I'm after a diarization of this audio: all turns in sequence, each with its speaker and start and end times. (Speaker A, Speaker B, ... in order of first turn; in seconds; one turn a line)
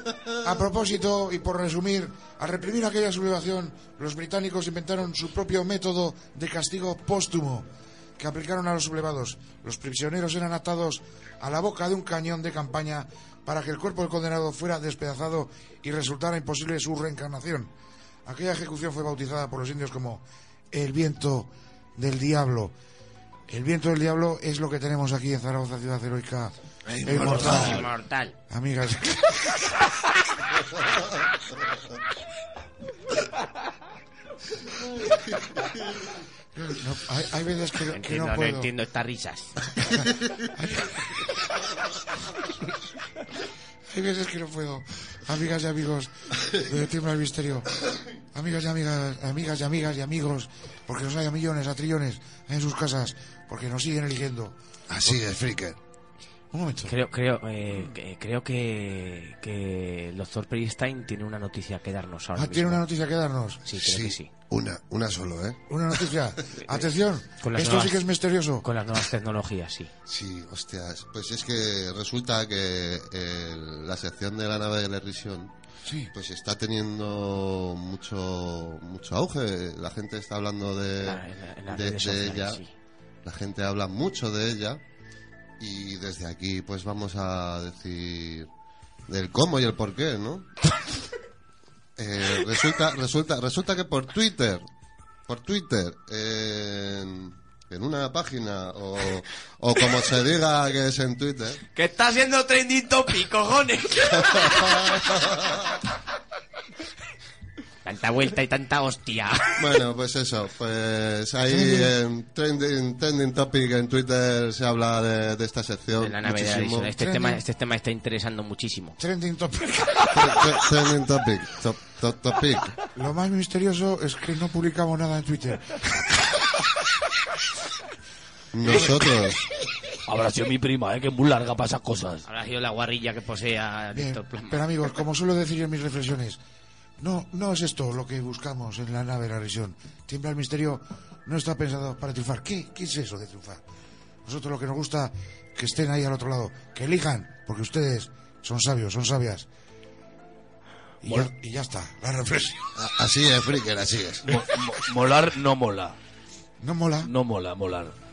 Speaker A: 0.3-7.7
Speaker A: 8.2-17.7
Speaker A: 18.3-22.7
Speaker A: 23.5-26.5
Speaker B: 26.9-27.7
Speaker A: 27.0-27.9
Speaker C: 27.1-27.9
Speaker D: 27.1-28.4
Speaker A: 28.5-29.7
Speaker A: 36.5-38.7
Speaker D: 37.9-39.7
Speaker A: 40.4-41.3
Speaker A: 43.9-47.8
Speaker A: 48.3-55.2
Speaker B: 54.9-55.8
Speaker A: 56.5-56.9
Speaker D: 56.9-62.8
Speaker A: 62.4-63.6
Speaker D: 63.6-64.3
Speaker B: 63.7-65.6
Speaker A: 65.7-68.7
Speaker D: 67.4-68.0
Speaker D: 68.6-69.9
Speaker B: 70.1-75.5
Speaker A: 75.8-76.1
Speaker B: 76.1-82.6
Speaker D: 81.0-82.7
Speaker B: 83.2-84.8
Speaker B: 85.6-88.5
Speaker B: 89.1-90.5
Speaker B: 92.0-94.6
Speaker B: 95.3-101.6
Speaker D: 101.7-105.2
Speaker D: 107.8-109.6
Speaker B: 109.6-117.0
Speaker A: 111.5-111.9
Speaker D: 116.0-119.0
Speaker A: 117.0-117.4
Speaker A: 119.0-120.5
Speaker B: 120.1-122.8
Speaker A: 122.9-126.7
Speaker B: 128.5-129.4
Speaker C: 128.7-128.9
Speaker C: 130.1-132.2
Speaker D: 132.2-134.7
Speaker A: 133.9-136.4
Speaker A: 137.0-143.6
Speaker A: 144.3-149.5
Speaker C: 151.0-151.3
Speaker A: 151.0-152.7
Speaker B: 152.8-154.2
Speaker C: 154.2-156.0
Speaker A: 156.6-157.1
Speaker C: 157.0-157.9